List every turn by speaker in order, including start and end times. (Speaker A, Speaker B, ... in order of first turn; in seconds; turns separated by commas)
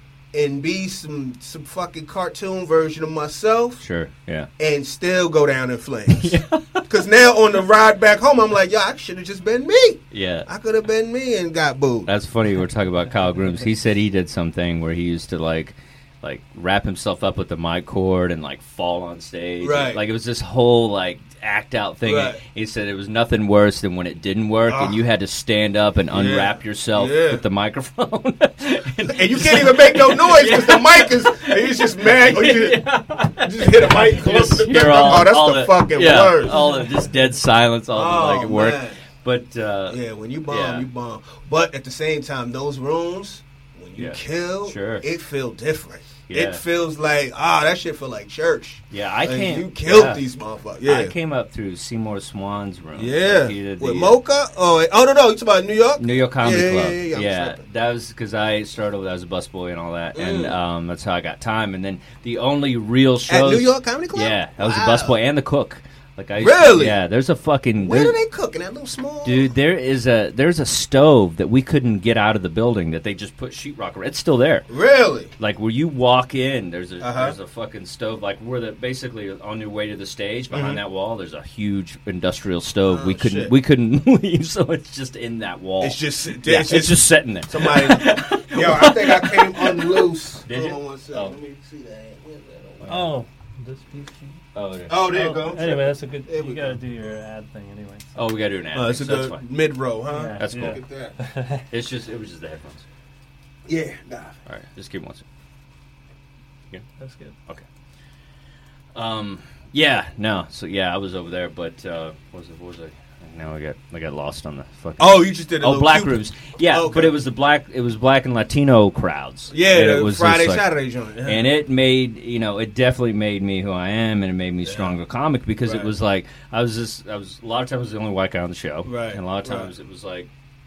Speaker A: 0.3-3.8, Speaker B: 3.8-4.5, Speaker A: 4.6-6.4, Speaker B: 6.1-6.8, Speaker A: 6.9-12.1, Speaker B: 10.1-10.5, Speaker B: 12.1-40.0, Speaker A: 19.6-20.0, Speaker A: 22.1-22.4, Speaker A: 24.7-25.0, Speaker A: 26.1-27.4, Speaker A: 29.1-36.6, Speaker C: 36.5-36.9, Speaker A: 37.9-39.0, Speaker A: 39.9-51.1, Speaker B: 40.5-40.9, Speaker B: 44.0-45.0, Speaker B: 46.3-46.6, Speaker B: 48.9-50.2, Speaker B: 50.9-54.1, Speaker A: 53.0-57.6, Speaker B: 56.0-68.1, Speaker A: 60.1-60.6, Speaker A: 63.3-65.2, Speaker A: 66.4-67.0, Speaker A: 67.8-69.5, Speaker B: 69.2-74.7, Speaker A: 74.7-75.3, Speaker B: 75.4-91.3, Speaker A: 77.0-77.4, Speaker A: 80.5-80.8, Speaker A: 82.9-83.5, Speaker A: 85.8-93.1, Speaker B: 92.8-93.1, Speaker C: 92.9-94.4, Speaker B: 94.5-95.1, Speaker A: 94.9-96.8, Speaker C: 95.0-98.1, Speaker B: 98.2-99.4, Speaker A: 98.7-101.1, Speaker C: 100.1-101.6, Speaker B: 100.4-100.8, Speaker B: 101.7-102.8, Speaker A: 103.7-104.4, Speaker B: 104.5-105.2, Speaker C: 107.0-107.4, Speaker B: 109.0-120.6, Speaker A: 115.0-117.1, Speaker A: 119.5-121.5, Speaker B: 121.2-130.3, Speaker A: 124.6-124.9, Speaker A: 125.6-125.9, Speaker A: 128.8-129.7